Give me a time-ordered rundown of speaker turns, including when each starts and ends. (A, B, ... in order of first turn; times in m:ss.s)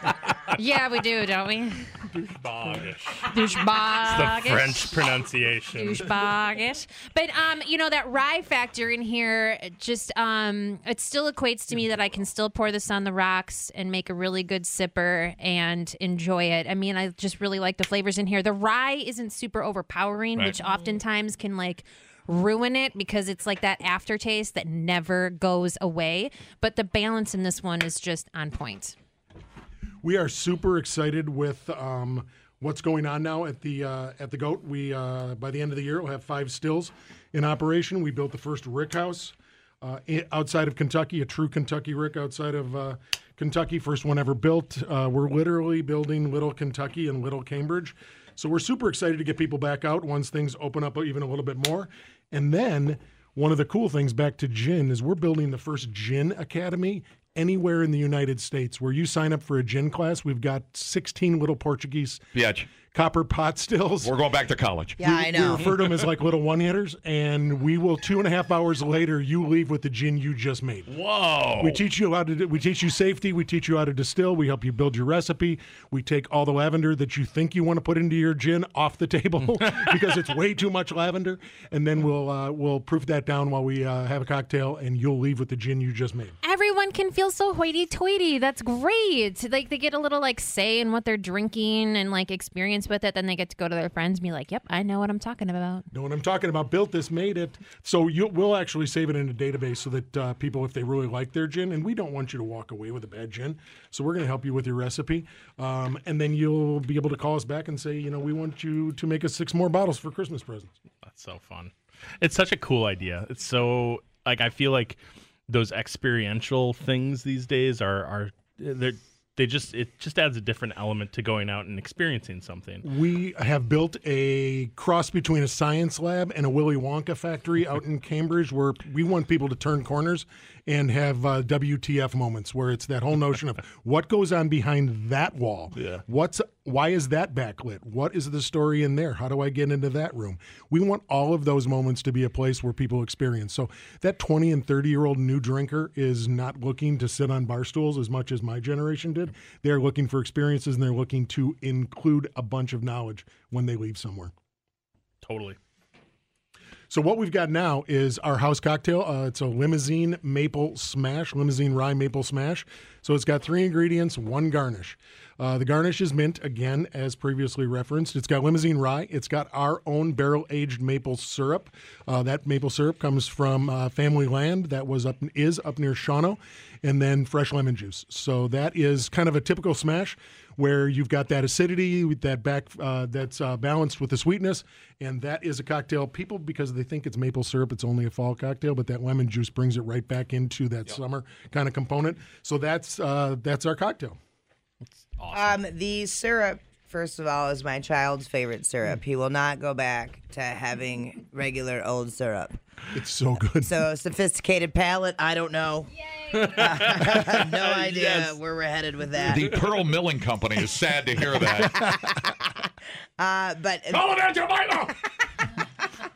0:00.5-0:01.9 A
0:02.8-0:03.3 B
0:03.2-0:05.0 A
0:04.0-0:06.1 B
0:05.8-0:29.0 A
0:30.0-1:02.2 C
1:02.3-1:02.7 D
1:02.9-1:04.1 C
1:04.0-1:05.0 D
1:05.0-1:05.7 E
1:05.0-1:10.9 C
1:10.9-1:11.8 D
1:11.6-1:26.4 C
1:26.4-1:35.9 A
1:35.9-1:50.7 C
1:51.0-2:02.8 B
2:02.8-2:34.3 C
2:35.2-2:35.6 B
2:36.9-3:14.2 C
3:15.0-3:15.6 B
3:15.3-3:22.6 E
3:22.9-3:23.7 C
3:23.6-3:29.4 E
3:26.4-3:28.4 B
3:29.3-3:32.1 D
3:31.8-3:32.3 E
3:33.2-3:34.1 E
3:34.0-3:35.0 D